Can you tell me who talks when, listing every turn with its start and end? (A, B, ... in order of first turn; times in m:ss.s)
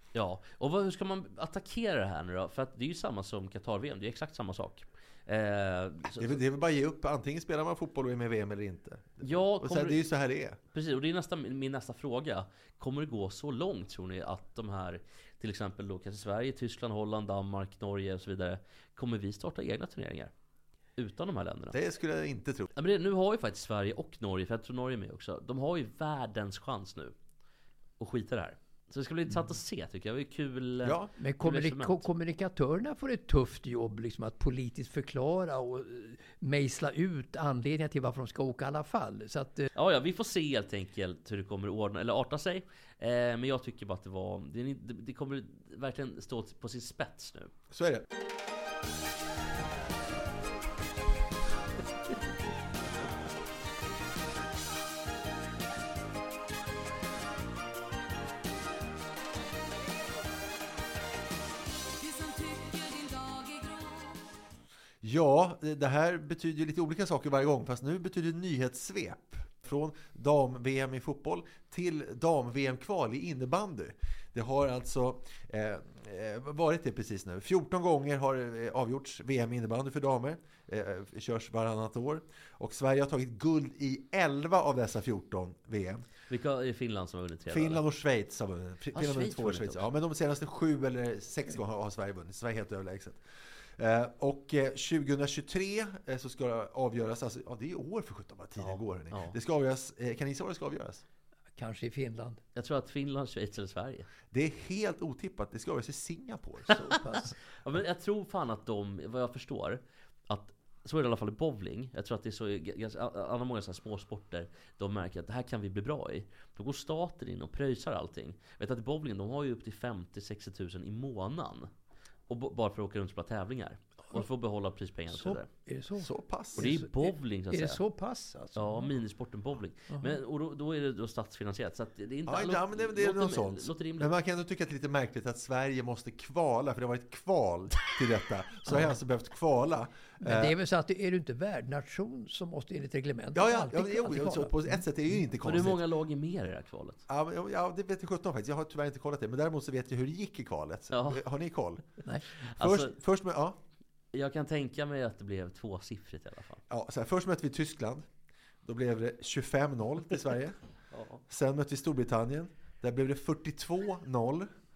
0:00.1-0:06.4 A
0:06.2-0:10.6 B
0:09.2-0:10.0 A
0:10.7-0:20.3 A
0:21.0-0:21.8 A
0:21.7-0:22.7 B
0:22.8-0:27.1 A
0:28.0-0:32.0 A
0:30.8-0:31.1 B
0:31.2-0:39.7 C
0:39.8-0:47.5 A
0:47.7-0:48.1 B
1:02.0-1:04.3 D
1:05.0-1:26.0 B
1:26.3-1:27.8 A
1:27.5-1:33.2 B
1:28.9-1:29.8 A
1:33.8-1:41.0 B
1:38.6-1:39.4 A
1:41.6-1:42.4 C
1:42.6-1:44.1 A
1:44.3-1:46.8 B
1:46.7-1:47.3 C
1:47.6-2:01.7 A
2:02.3-2:05.5 A
2:05.1-2:08.9 C
2:06.0-2:06.8 B
2:06.6-2:07.8 A
2:08.6-2:14.1 A
2:12.3-2:20.6 B
2:20.2-2:24.8 C
2:23.3-2:25.8 B
2:25.4-2:27.0 A
2:27.1-2:31.8 B
2:30.9-2:31.2 A
2:32.5-2:32.9 A
2:32.6-2:33.6 B
2:34.1-2:36.6 A
2:36.7-2:38.1 B
2:38.6-2:40.6 B
2:40.9-2:41.2 A
2:41.3-2:44.5 B